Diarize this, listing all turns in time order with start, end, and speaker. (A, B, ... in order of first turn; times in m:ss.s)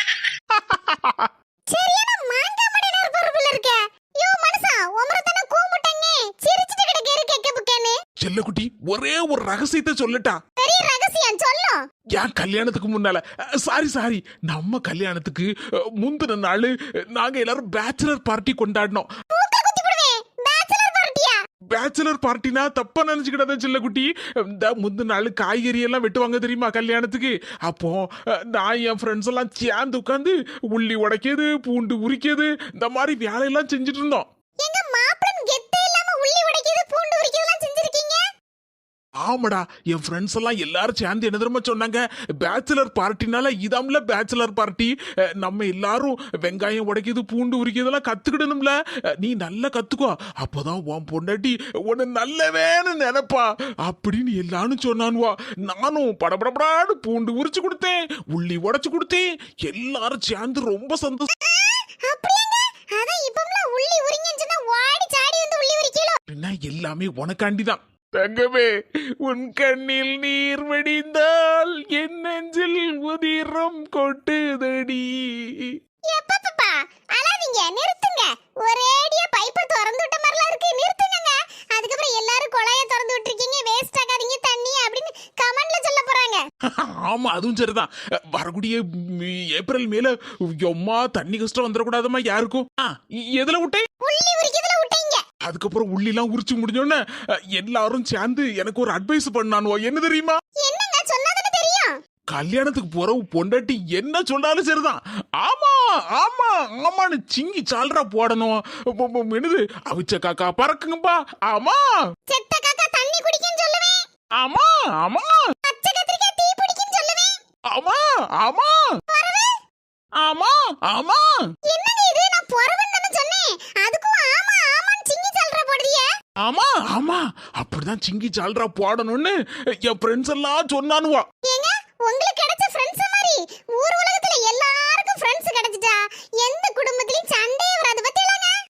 0:00.7-0:01.3 A
0:01.7-0:08.0 B
0:08.2-0:10.4 A
0:10.6-0:11.8 B
0:12.1-0:19.1 A
0:19.3-0:21.4 B
0:21.7-0:34.3 A
0:34.6-0:38.2 B
0:39.2-1:01.3 A
1:01.4-1:06.2 B
1:06.3-1:15.8 A
1:16.1-1:26.4 B
1:26.7-1:33.8 A
1:34.0-1:35.2 B
1:35.4-1:40.4 A
1:40.6-1:41.9 B
1:42.3-1:51.8 A
1:52.3-1:54.0 B
1:54.4-1:55.5 A
1:55.6-1:57.3 B
1:57.7-1:59.0 A
1:59.1-1:59.6 B
2:00.2-2:01.5 A
2:01.7-2:06.1 B
2:06.4-2:11.2 A
2:11.4-2:18.5 B